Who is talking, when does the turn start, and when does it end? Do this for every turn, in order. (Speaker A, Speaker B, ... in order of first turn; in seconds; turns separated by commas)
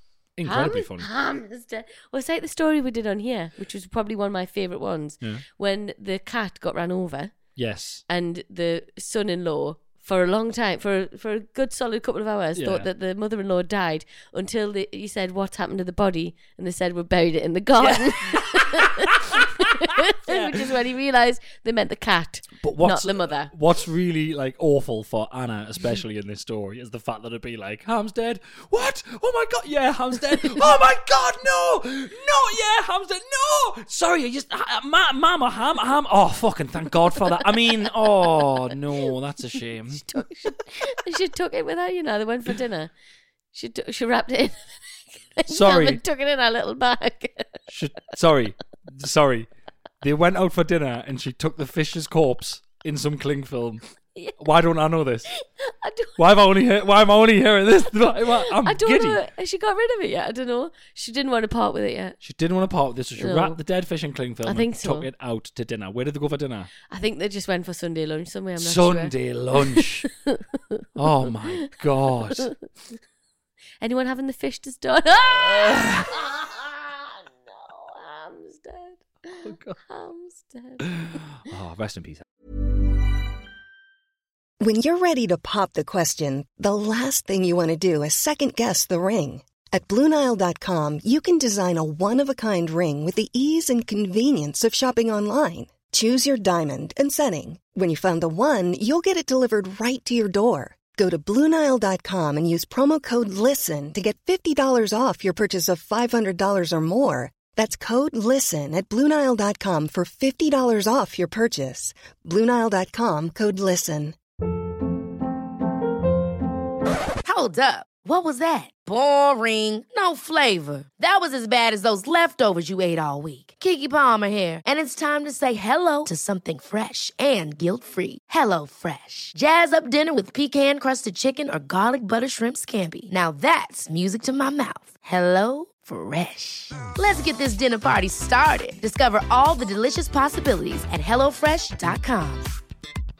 Speaker A: 0.4-1.1, Speaker B: 0.4-7.3, Speaker A: 7.5-8.0, Speaker B: 8.1-23.5, Speaker A: 12.6-12.9, Speaker A: 17.8-20.6, Speaker A: 22.6-40.2, Speaker B: 40.0-42.9, Speaker B: 43.5-44.8, Speaker B: 45.4-47.6, Speaker A: 45.5-46.0, Speaker A: 47.7-49.5, Speaker A: 50.0-53.8, Speaker A: 54.4-55.3, Speaker B: 55.6-56.1, Speaker A: 56.2-59.2, Speaker B: 58.1-62.1, Speaker A: 62.2-66.7, Speaker B: 63.2-63.6, Speaker B: 64.4-65.1, Speaker B: 66.9-70.4, Speaker A: 68.6-70.1, Speaker A: 71.0-72.5, Speaker B: 73.8-80.8, Speaker A: 75.6-76.1, Speaker A: 79.4-79.8, Speaker A: 80.8-82.2, Speaker C: 84.6-114.2, Speaker D: 117.2-142.5